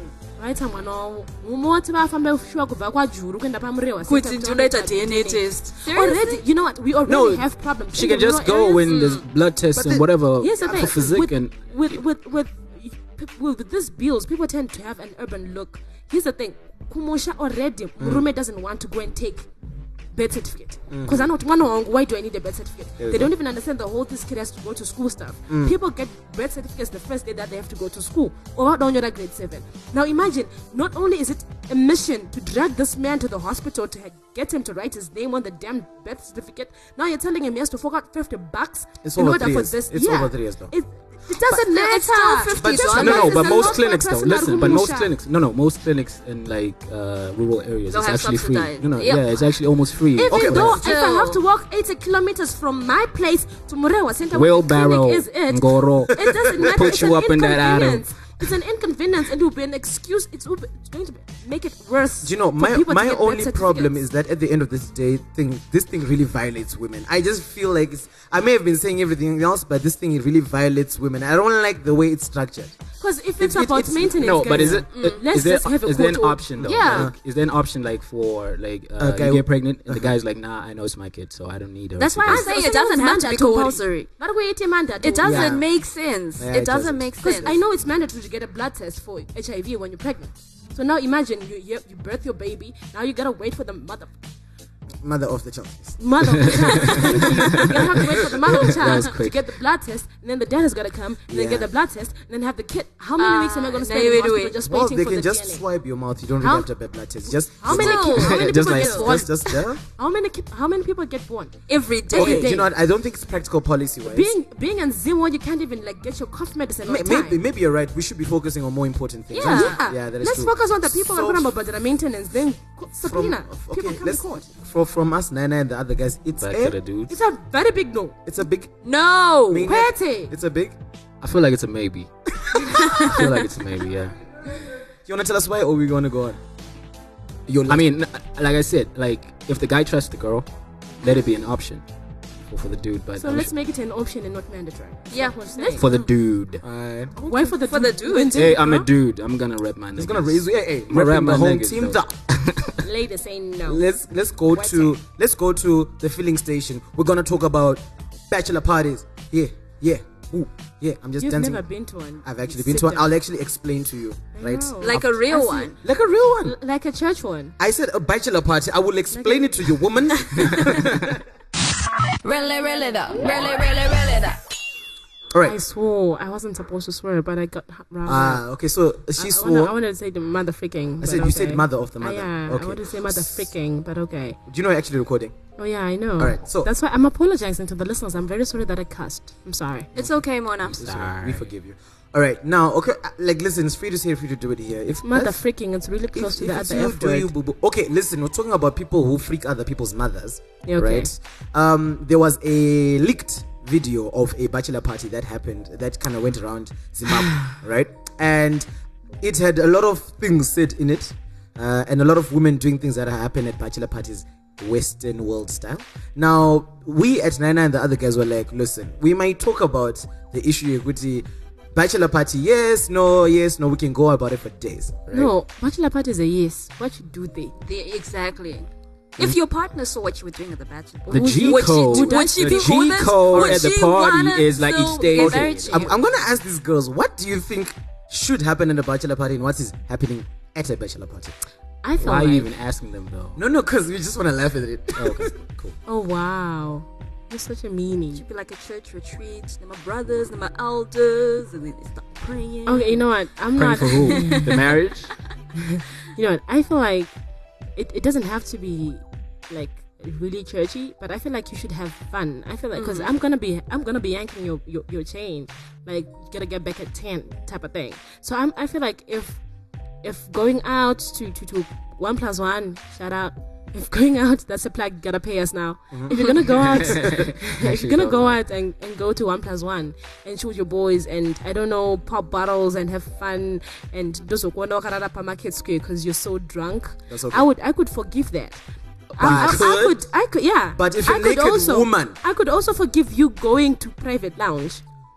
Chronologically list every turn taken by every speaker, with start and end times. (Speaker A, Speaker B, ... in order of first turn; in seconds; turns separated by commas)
Speaker A: 0.4-9.0, Speaker B: 4.0-6.4, Speaker C: 7.0-11.6, Speaker B: 8.8-9.2, Speaker D: 9.7-11.1, Speaker A: 10.4-19.5, Speaker D: 18.0-18.2, Speaker A: 20.1-45.1, Speaker D: 20.9-21.3, Speaker D: 23.0-23.3, Speaker D: 25.5-25.7, Speaker D: 39.0-40.7, Speaker B: 41.5-43.5, Speaker D: 42.5-43.9, Speaker C: 42.9-50.8, Speaker B: 47.9-49.5, Speaker A: 50.1-64.0, Speaker D: 50.3-50.8, Speaker B: 50.6-51.4, Speaker C: 54.3-58.0, Speaker D: 56.2-57.1, Speaker D: 62.2-72.8, Speaker A: 73.0-76.6, Speaker D: 73.4-74.9, Speaker C: 74.2-82.4, Speaker B: 74.9-75.2, Speaker B: 76.6-77.1, Speaker D: 76.8-77.1, Speaker D: 79.0-80.1, Speaker B: 82.0-84.1, Speaker A: 82.2-85.5, Speaker B: 85.0-87.5, Speaker D: 85.2-85.6, Speaker D: 86.4-87.6, Speaker A: 87.2-94.1, Speaker D: 95.0-97.5, Speaker A: 96.0-105.6, Speaker C: 96.2-97.8, Speaker C: 98.5-99.4, Speaker D: 101.3-101.7, Speaker B: 103.2-104.6, Speaker D: 104.6-109.8, Speaker A: 106.4-106.7, Speaker A: 107.2-112.7, Speaker B: 107.7-109.1, Speaker C: 107.8-109.1, Speaker B: 111.7-112.6, Speaker D: 112.1-114.3, Speaker A: 114.0-117.4, Speaker D: 116.8-121.5, Speaker B: 119.3-119.8, Speaker A: 119.5-124.5, Speaker D: 123.0-126.8, Speaker C: 126.4-127.1, Speaker A: 127.1-128.2, Speaker D: 128.2-128.7, Speaker B: 128.8-129.7, Speaker D: 129.5-130.8, Speaker A: 129.6-130.3, Speaker C: 131.2-132.1, Speaker C: 132.6-134.2, Speaker B: 132.7-133.3, Speaker D: 135.1-136.4, Speaker D: 137.5-137.9, Speaker C: 137.7-140.4, Speaker C: 141.0-141.8, Speaker C: 142.5-143.5, Speaker A: 143.2-145.9, Speaker B: 145.1-146.1, Speaker C: 145.8-146.6, Speaker D: 146.6-147.6, Speaker A: 147.2-148.9, Speaker B: 147.6-148.6, Speaker C: 148.3-152.8, Speaker D: 149.9-152.2, Speaker A: 152.8-153.8, Speaker D: 153.7-161.6, Speaker A: 154.5-155.0, Speaker A: 161.2-163.1, Speaker D: 162.2-165.2, Speaker A: 164.3-165.7, Speaker B: 164.8-165.8, Speaker D: 165.8-166.6, Speaker A: 166.4-167.5, Speaker D: 167.6-171.2, Speaker A: 169.1-169.6, Speaker E: 172.2-174.4, Speaker D: 175.3-175.6, Speaker A: 175.4-178.4, Speaker D: 178.1-179.7, Speaker A: 179.2-184.4, Speaker D: 181.0-183.5, Speaker D: 184.4-185.3, Speaker A: 185.6-189.9, Speaker D: 186.2-186.7, Speaker B: 189.9-190.8, Speaker C: 190.7-191.4, Speaker D: 190.7-195.4, Speaker A: 195.0-197.3, Speaker D: 196.1-208.7, Speaker A: 200.7-201.1, Speaker D: 209.2-225.2, Speaker A: 225.1-227.5, Speaker B: 227.6-235.9, Speaker A: 231.1-232.8, Speaker C: 231.1-235.9, Speaker D: 233.3-233.6, Speaker D: 235.1-241.3, Speaker A: 241.8-242.5, Speaker C: 242.0-243.4, Speaker D: 243.4-245.3, Speaker C: 244.9-245.8, Speaker A: 245.9-248.2, Speaker B: 248.1-253.0, Speaker A: 252.7-254.6, Speaker C: 253.6-255.1, Speaker B: 253.8-254.7, Speaker A: 255.6-257.1, Speaker A: 257.8-269.4, Speaker B: 262.7-263.1, Speaker A: 270.0-288.6, Speaker D: 275.9-277.3, Speaker C: 276.5-278.4, Speaker D: 287.1-287.5, Speaker D: 289.1-290.0, Speaker A: 289.2-294.8, Speaker C: 289.2-289.5, Speaker D: 290.7-292.1